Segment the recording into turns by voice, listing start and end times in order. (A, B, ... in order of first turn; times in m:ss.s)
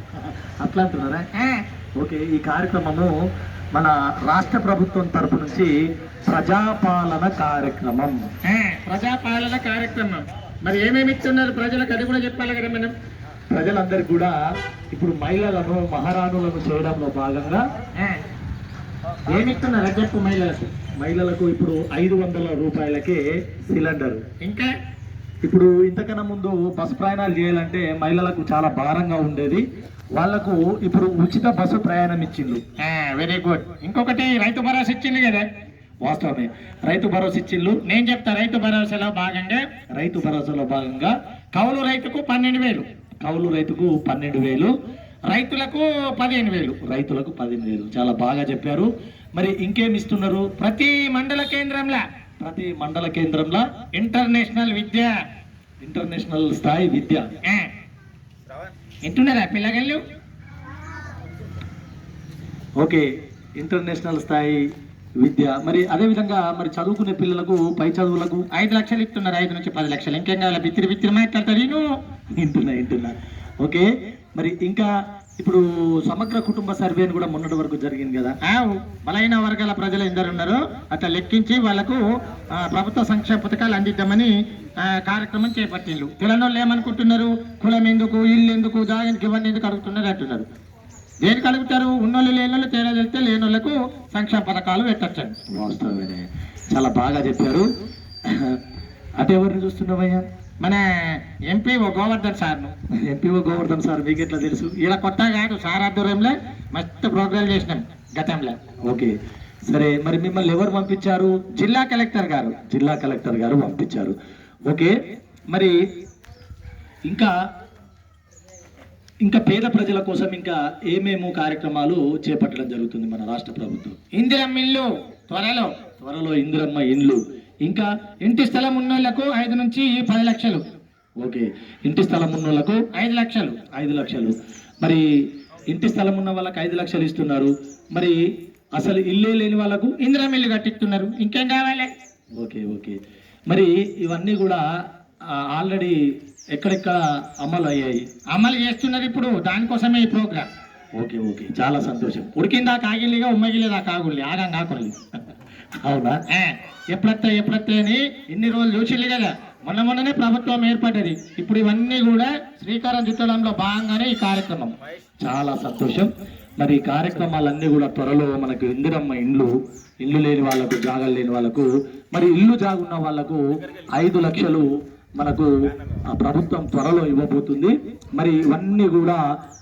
0:00.5-0:01.3 A
0:01.3-0:01.6 B
0:02.0-0:03.1 A
0:03.7-0:05.7 A
0:06.3-0:08.3 A
0:08.4-0:12.9 B
0:13.5-0:14.4 A
0:14.9-0:17.6 A
0:18.0-0:18.2 B
0:19.3-0:20.7 B
0:21.0-0:24.2 A
0:24.4-0:24.7 B
0:25.4-0:29.6 A
0:30.2-0:32.6 A
0:32.8-0:35.4 B
0:36.0-0:37.8 A
0:37.8-0:39.6 B
0:40.0-0:41.1 A
0:41.6-0:42.9 B
0:43.2-0:44.7 A
0:45.3-0:46.8 B
0:46.8-0:50.6 A
0:50.6-0:52.0 B
0:52.4-0:53.6 A
0:53.9-0:55.1 B
0:55.8-0:57.3 A
0:57.4-0:57.7 B
0:59.0-1:00.0 B
1:02.8-1:04.6 A
1:05.2-1:08.4 A
1:08.5-1:11.8 B
1:12.3-1:18.4 A
1:18.4-1:30.5 B
1:31.2-1:35.4 B
1:35.5-1:37.7 A
1:38.3-1:38.6 A
1:39.2-1:40.3 A
1:40.6-1:42.7 B
1:43.0-1:44.8 A
1:44.8-1:48.6 B
1:48.9-1:49.1 A
1:49.7-1:51.6 A
1:51.6-1:52.4 B
1:52.4-1:54.2 A
1:54.7-1:55.0 A
1:55.5-1:55.8 A
1:59.2-2:04.0 A
2:04.1-2:05.7 B
2:06.0-2:07.9 A
2:08.2-2:10.6 B
2:11.2-2:12.9 A
2:12.9-2:13.6 B
2:13.7-2:15.0 A
2:15.7-2:18.2 A
2:18.8-2:20.0 A
2:20.0-2:21.9 B
2:22.4-2:23.0 A
2:23.5-2:24.6 A
2:25.3-2:26.0 A
2:26.5-2:28.0 A
2:28.3-2:30.5 B
2:31.0-2:32.4 A
2:32.4-2:35.0 B
2:35.8-2:36.2 A
2:36.3-2:44.7 B
2:45.2-2:53.4 A
2:53.9-2:55.5 A
2:56.1-2:59.2 A